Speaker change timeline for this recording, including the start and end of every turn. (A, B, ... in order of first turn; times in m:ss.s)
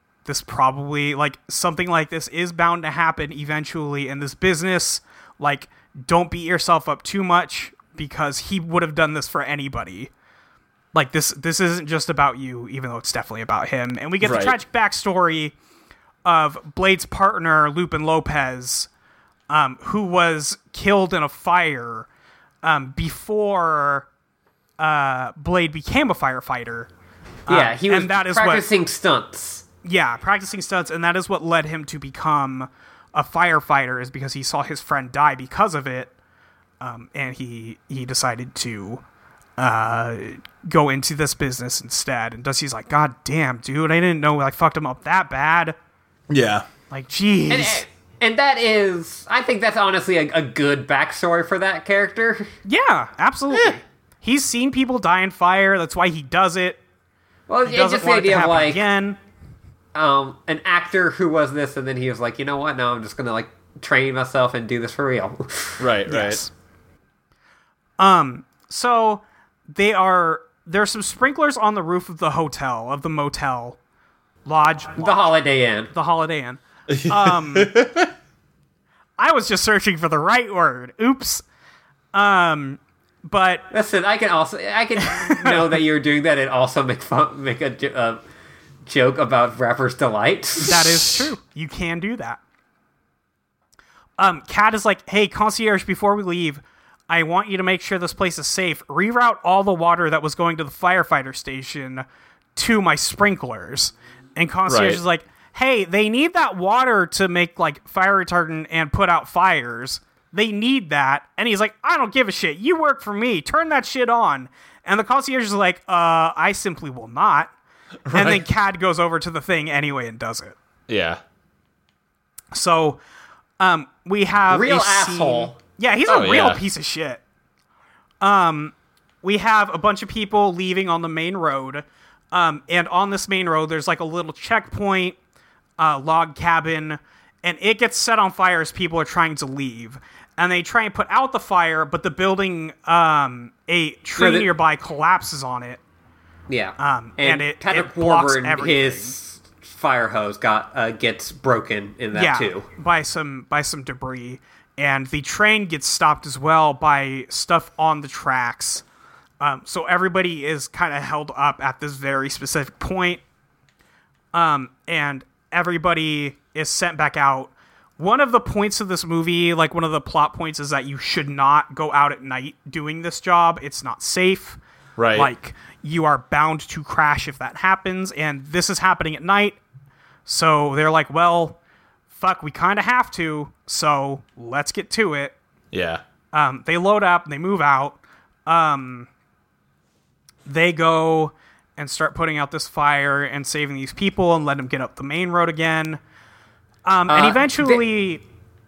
0:00.2-0:10.1 A
0:10.9-0:15.5 A
0:14.2-0:14.6 B
0:16.2-0:18.9 A
0:19.5-0:22.1 A
0:22.6-0:24.0 A
0:24.8-0:26.9 A
0:27.5-0:28.6 A
0:27.5-0:29.6 C
0:29.8-0:36.1 A
0:36.8-0:39.0 A
0:39.6-0:45.8 A
0:46.3-0:46.7 B
0:46.9-0:47.8 A
0:47.5-0:52.5 C
0:52.6-0:56.8 A
0:53.5-0:53.8 B
0:57.5-0:58.8 C
0:57.6-0:59.2 A
0:59.9-1:05.8 C
1:05.8-1:06.4 B
1:06.1-1:06.5 A
1:08.0-1:13.8 A
1:14.4-1:15.3 A
1:15.0-1:15.9 C
1:15.9-1:17.7 A
1:16.9-1:18.1 B
1:19.2-1:21.4 A
1:22.1-1:23.6 A
1:23.7-1:28.2 C
1:25.1-1:25.8 A
1:28.8-1:31.2 C
1:30.6-1:32.4 A
1:34.2-1:42.0 A
1:42.6-1:57.5 A
1:44.7-1:45.0 B
1:58.1-1:58.4 B
1:58.1-2:00.5 A
2:00.9-2:01.2 B
2:02.5-2:03.0 A
2:03.6-2:07.2 A
2:04.5-2:05.6 C
2:06.1-2:06.6 B
2:08.2-2:15.2 A
2:15.8-2:25.8 A
2:24.2-2:24.5 C
2:26.5-2:32.7 C
2:26.8-2:29.2 A
2:32.1-2:38.8 A
2:39.4-2:43.2 A
2:44.3-2:54.6 A
2:55.0-2:55.3 B
2:55.1-2:59.6 A
3:00.2-3:01.6 A
3:02.1-3:05.3 A
3:05.7-3:06.0 B
3:06.3-3:09.1 A
3:10.4-3:16.0 A
3:16.8-3:18.2 A
3:17.1-3:17.8 C